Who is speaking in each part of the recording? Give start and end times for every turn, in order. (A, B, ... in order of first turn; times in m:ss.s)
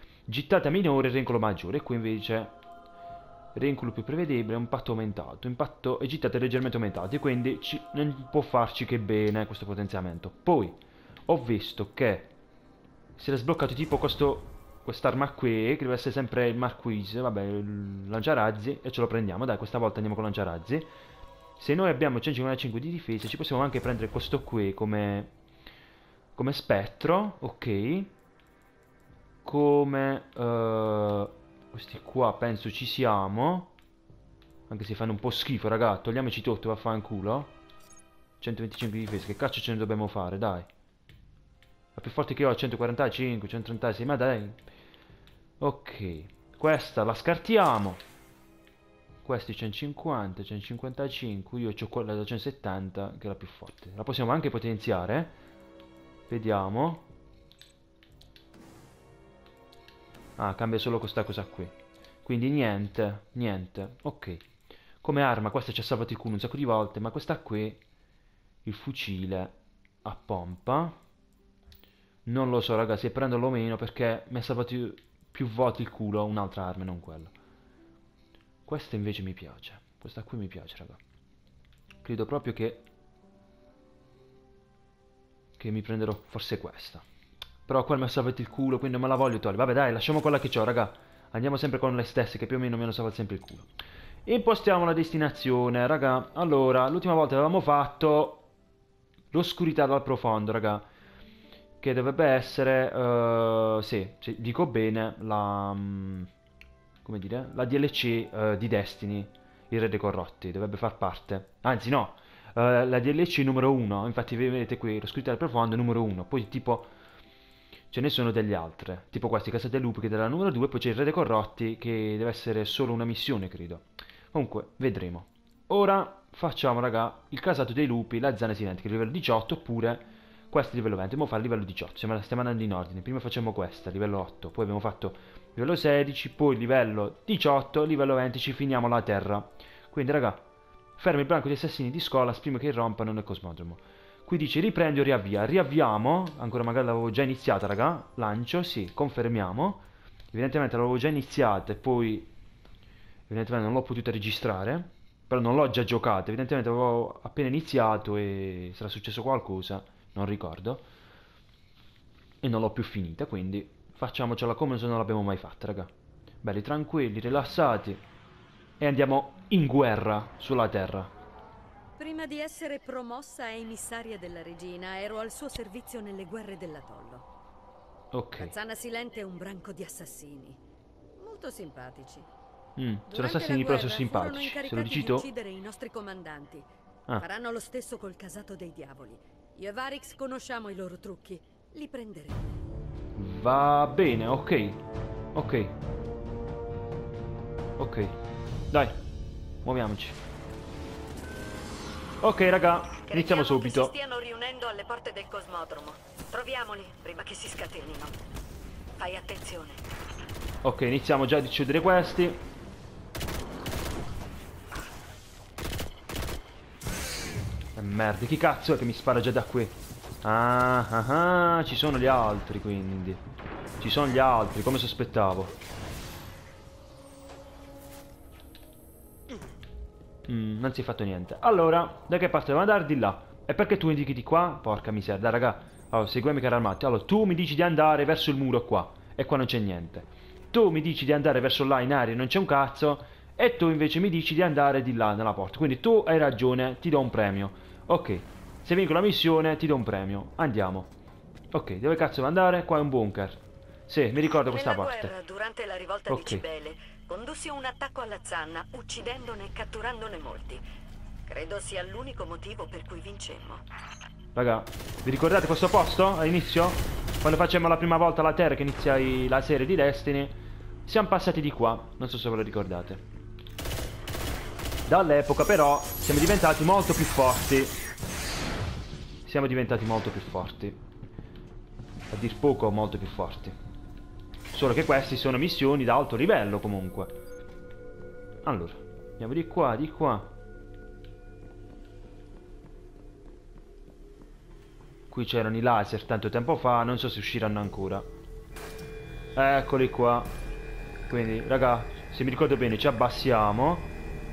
0:00.3-0:02.5 A
0:03.5-0:10.8 A
0:11.3-0:12.3 A
0:13.2-0:20.9 A
0:21.6-0:25.3 A
0:26.4-0:28.1 A
0:29.4-0:33.7 A
0:34.7-0:37.5 A
0:38.4-0:40.7 A
0:41.9-0:44.6 A
0:45.6-0:48.0 A
0:49.2-0:55.3 A
0:56.3-0:57.0 A
1:00.4-1:04.4 A
1:05.0-1:07.8 A
1:08.6-1:11.0 A
1:12.2-1:17.3 A
1:18.6-1:21.0 A
1:22.0-1:22.8 A
1:25.6-1:27.0 A
1:27.6-1:33.7 A
1:34.2-1:38.4 A
1:39.3-1:40.8 A
1:41.8-1:46.3 A
1:47.0-1:56.9 A
1:57.9-2:20.4 A
2:21.0-2:32.3 A
2:33.3-2:40.8 A
2:42.4-2:45.9 A
2:46.4-2:48.0 A
2:48.8-2:51.1 A
2:52.0-2:57.2 B
2:58.1-2:58.5 A
2:58.4-3:00.6 B
3:01.2-3:02.3 B
3:02.8-3:05.3 A
3:03.1-3:12.5 B
3:13.2-3:14.8 A
3:15.3-3:15.7 A
3:17.8-3:18.1 A
3:18.7-3:19.0 A
3:19.6-3:20.2 A
3:22.2-3:23.9 A
3:23.1-3:28.2 B
3:29.0-3:29.8 B
3:30.6-3:32.4 A
3:37.8-3:43.2 A
3:43.8-3:45.6 A
3:50.3-4:10.9 A
4:11.5-4:15.1 A
4:14.3-4:20.6 B
4:16.1-4:16.4 A
4:21.3-4:23.6 B
4:24.3-4:33.0 A
4:34.9-4:37.8 A
4:39.2-4:40.8 A
4:42.1-4:43.6 A
4:44.5-4:47.1 A
4:48.4-4:50.3 A
4:55.1-4:58.0 A
4:59.4-5:00.3 A
5:01.1-5:03.9 A